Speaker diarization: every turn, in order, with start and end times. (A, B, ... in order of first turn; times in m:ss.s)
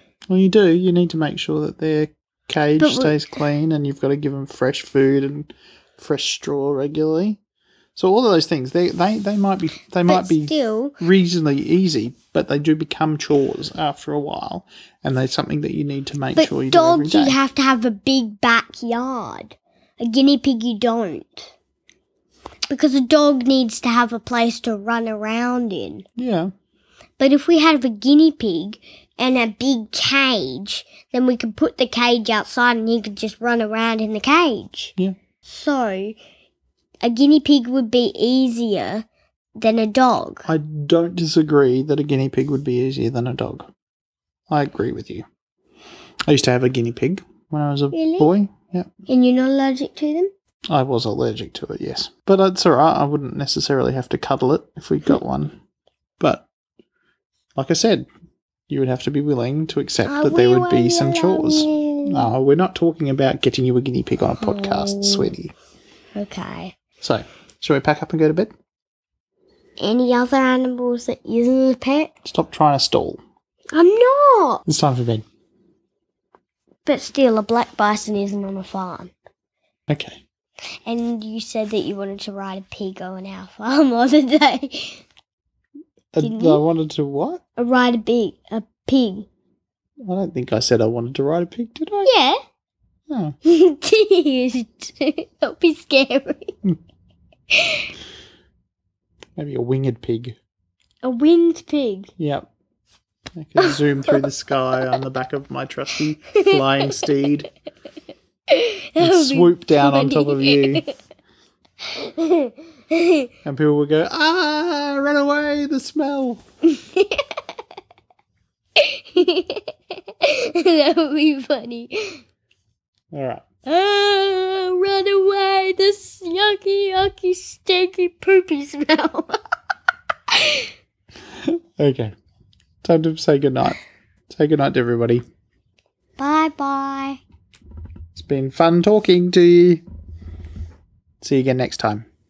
0:00.3-0:07.4 A
0:02.8-0:03.2 B
0:08.0-0:17.4 A
0:10.0-0:11.0 B
0:16.4-0:21.5 B
0:22.7-0:26.0 B
0:26.2-0:26.5 A
0:27.2-0:34.9 B
0:35.4-0:36.2 B
0:37.0-0:39.0 B
0:39.6-0:40.5 B
0:40.4-0:43.7 A
0:44.5-0:45.2 A
0:46.3-0:48.9 A
0:47.9-0:48.3 B
0:49.1-0:50.3 B
0:50.7-0:55.5 A
0:56.2-0:56.5 A
0:57.6-0:58.1 A
0:58.7-1:05.5 A
1:00.0-1:02.3 B
1:04.4-1:05.3 B
1:06.2-1:06.8 B
1:07.0-1:08.5 A
1:09.8-1:12.1 B
1:12.2-1:13.2 A
1:13.7-1:14.6 B
1:14.6-1:15.2 A
1:16.8-1:19.1 B
1:19.9-1:20.2 A
1:20.8-1:25.0 B
1:26.1-1:27.4 A
1:26.2-1:26.6 B
1:27.6-1:29.3 B
1:30.0-1:32.1 A
1:32.0-1:32.4 B
1:33.1-1:33.3 A
1:33.4-1:36.5 B
1:37.5-1:37.9 B
1:39.4-1:40.4 A
1:41.0-1:42.1 B
1:42.2-1:42.5 A
1:43.4-1:47.5 A
1:43.6-1:44.2 B
1:46.3-1:46.6 B
1:48.5-1:50.9 B
1:49.0-1:50.8 A
1:51.9-1:53.3 B
1:53.4-1:56.4 A
1:56.6-1:57.3 B
1:58.8-2:02.2 B
2:03.1-2:03.4 A
2:03.6-2:09.4 B
2:10.3-2:10.7 B
2:11.4-2:12.1 A
2:12.8-2:13.8 A
2:14.3-2:15.2 A
2:16.2-2:17.2 B
2:18.1-2:19.8 A
2:21.2-2:22.0 A